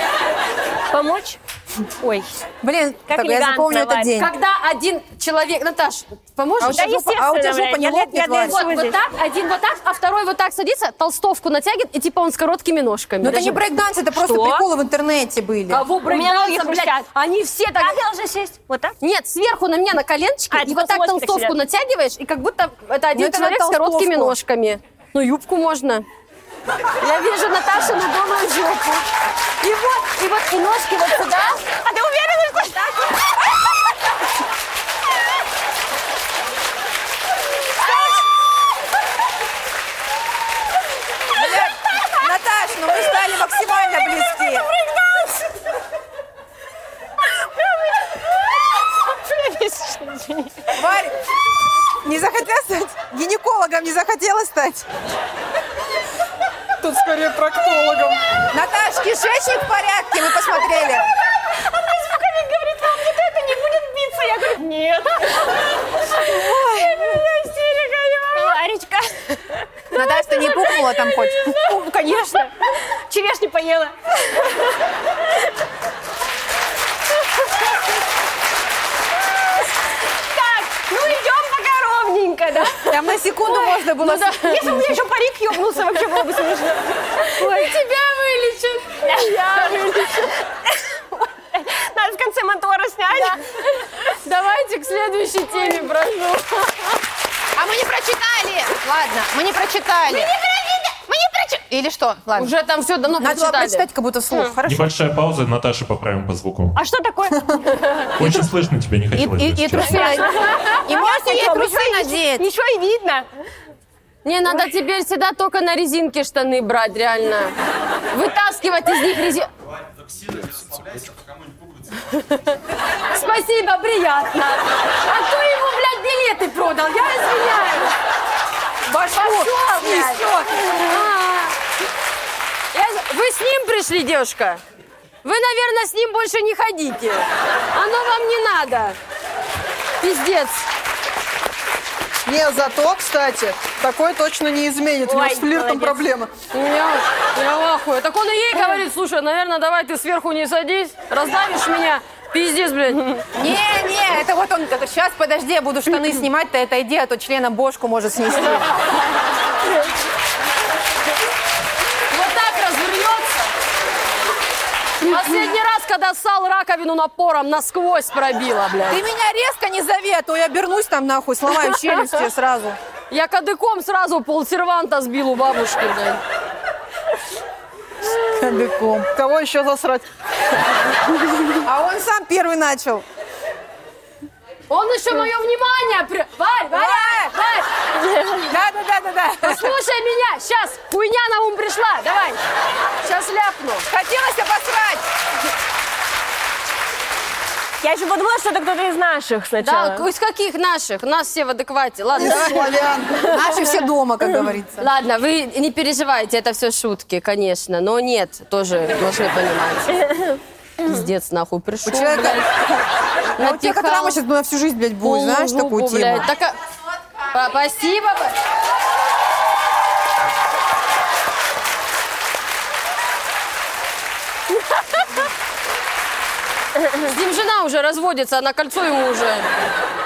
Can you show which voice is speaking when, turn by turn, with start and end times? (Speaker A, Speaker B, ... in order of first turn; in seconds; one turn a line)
Speaker A: 0.9-1.4
Speaker A: 2.0-2.4
Speaker B: 2.6-4.3
Speaker A: 3.1-4.1
Speaker C: 4.2-6.9
Speaker B: 6.6-8.6
Speaker A: 6.7-9.0
Speaker C: 8.4-13.6
Speaker B: 13.2-15.8
Speaker A: 14.1-14.7
Speaker C: 15.7-17.9
Speaker A: 16.0-17.1
Speaker A: 17.8-18.9
Speaker C: 19.0-26.0
Speaker A: 20.5-21.5
Speaker B: 23.1-24.4
Speaker C: 27.0-29.1
Speaker C: 29.6-31.6
Speaker A: 31.7-33.4
Speaker B: 41.3-44.7
Speaker A: 44.3-45.5
Speaker A: 47.4-50.7
Speaker B: 50.7-51.1
Speaker B: 52.0-54.9
Speaker D: 56.8-58.3
Speaker B: 58.5-61.0
Speaker A: 61.5-74.6
Speaker B: 69.9-71.8
Speaker A: 80.2-83.0
Speaker B: 82.8-84.9
Speaker C: 84.0-84.6
Speaker A: 84.4-87.7
Speaker C: 87.4-90.3
Speaker A: 89.0-90.8
Speaker A: 91.5-93.4
Speaker C: 93.1-97.0
Speaker B: 97.5-100.3
Speaker A: 100.1-101.0
Speaker B: 101.0-102.5
Speaker C: 102.3-103.8
Speaker B: 103.2-104.9
Speaker A: 104.3-104.5
Speaker E: 104.7-106.8
Speaker A: 106.8-107.6
Speaker E: 108.2-110.0
Speaker B: 109.1-110.3
Speaker A: 109.8-113.2
Speaker B: 110.8-112.4
Speaker C: 114.2-117.5
Speaker C: 118.1-119.5
Speaker C: 122.1-122.4
Speaker C: 123.1-127.9
Speaker B: 128.9-130.7
Speaker C: 129.1-131.5
Speaker C: 132.7-134.6
Speaker C: 135.2-139.0
Speaker C: 140.0-140.6
Speaker D: 142.2-146.3
Speaker A: 145.0-146.0
Speaker C: 146.5-153.2
Speaker B: 153.3-158.7
Speaker C: 162.1-163.4
Speaker C: 165.0-169.0
Speaker B: 168.9-172.8
Speaker C: 171.6-172.2
Speaker C: 173.1-176.2
Speaker B: 178.2-179.1
Speaker D: 179.1-180.0
Speaker B: 181.6-183.0
Speaker C: 184.7-187.7
Speaker B: 186.7-187.3
Speaker B: 188.4-189.8
Speaker C: 189.4-192.4
Speaker C: 193.0-193.9
Speaker B: 193.9-195.1
Speaker A: 197.8-200.1
Speaker C: 199.6-202.6
Speaker D: 202.2-203.3
Speaker B: 203.3-204.9
Speaker C: 204.8-212.4
Speaker B: 211.8-212.8
Speaker C: 213.4-214.2
Speaker B: 213.4-216.3
Speaker C: 215.0-216.6
Speaker C: 217.3-218.3
Speaker C: 227.0-229.5